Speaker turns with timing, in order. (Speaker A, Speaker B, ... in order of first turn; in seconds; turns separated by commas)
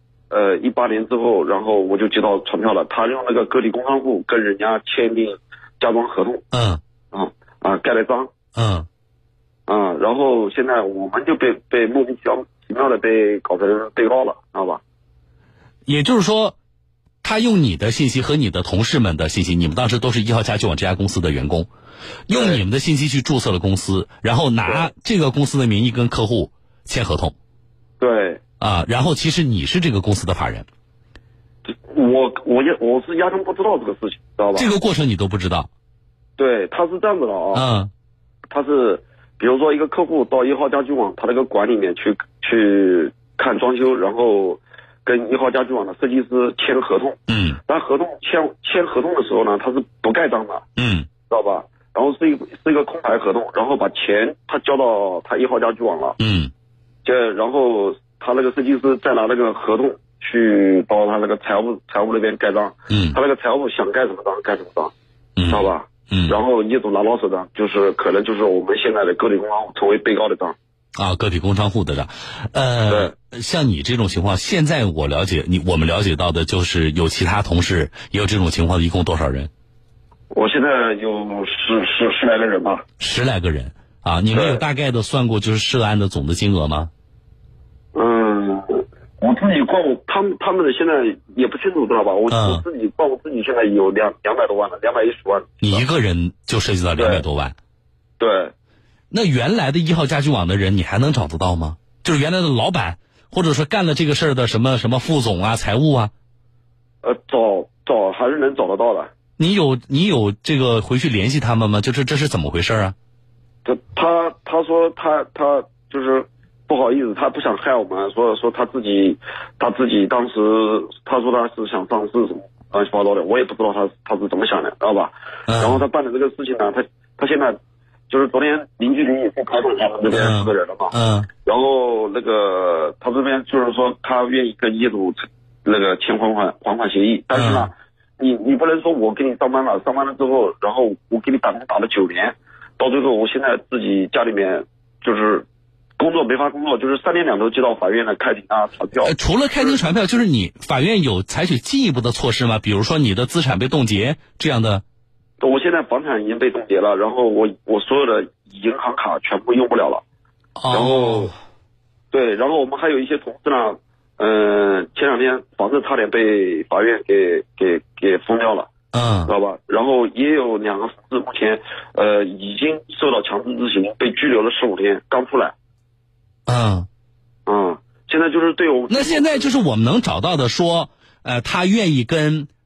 Speaker A: 0.3-6.4, Speaker B: 6.5-6.8, Speaker A: 7.1-8.3, Speaker B: 8.6-8.9, Speaker A: 9.7-14.8, Speaker B: 15.9-16.6, Speaker B: 17.2-21.7, Speaker B: 22.3-27.4, Speaker A: 22.3-22.6, Speaker A: 28.0-28.4, Speaker B: 28.6-30.7, Speaker A: 31.7-34.7, Speaker B: 34.5-35.7, Speaker A: 36.4-37.6, Speaker B: 37.5-37.9, Speaker A: 38.5-50.6, Speaker B: 47.3-47.6, Speaker B: 50.8-51.1, Speaker A: 51.3-56.2, Speaker B: 56.2-56.5, Speaker A: 57.0-64.9, Speaker B: 62.9-63.2, Speaker B: 65.4-66.4, Speaker A: 65.5-70.5, Speaker B: 71.0-79.5, Speaker A: 72.9-73.1, Speaker A: 80.3-82.8, Speaker B: 83.0-86.9, Speaker A: 84.3-84.6, Speaker A: 88.0-95.8, Speaker B: 92.3-92.6, Speaker B: 95.6-97.6, Speaker A: 97.0-97.2, Speaker A: 98.2-98.5, Speaker B: 99.1-106.1, Speaker A: 107.0-109.1, Speaker B: 109.4-113.0, Speaker A: 113.7-127.6, Speaker B: 125.5-125.8, Speaker A: 128.1-130.9, Speaker B: 130.1-131.3, Speaker A: 131.4-145.5, Speaker B: 137.3-137.7, Speaker A: 146.0-149.8, Speaker B: 149.0-154.8, Speaker A: 155.4-160.0, Speaker B: 160.6-161.3, Speaker A: 160.7-161.3, Speaker A: 162.1-168.7, Speaker B: 168.9-169.3, Speaker A: 169.3-175.5, Speaker B: 176.5-176.9, Speaker A: 177.5-179.5, Speaker B: 178.9-182.5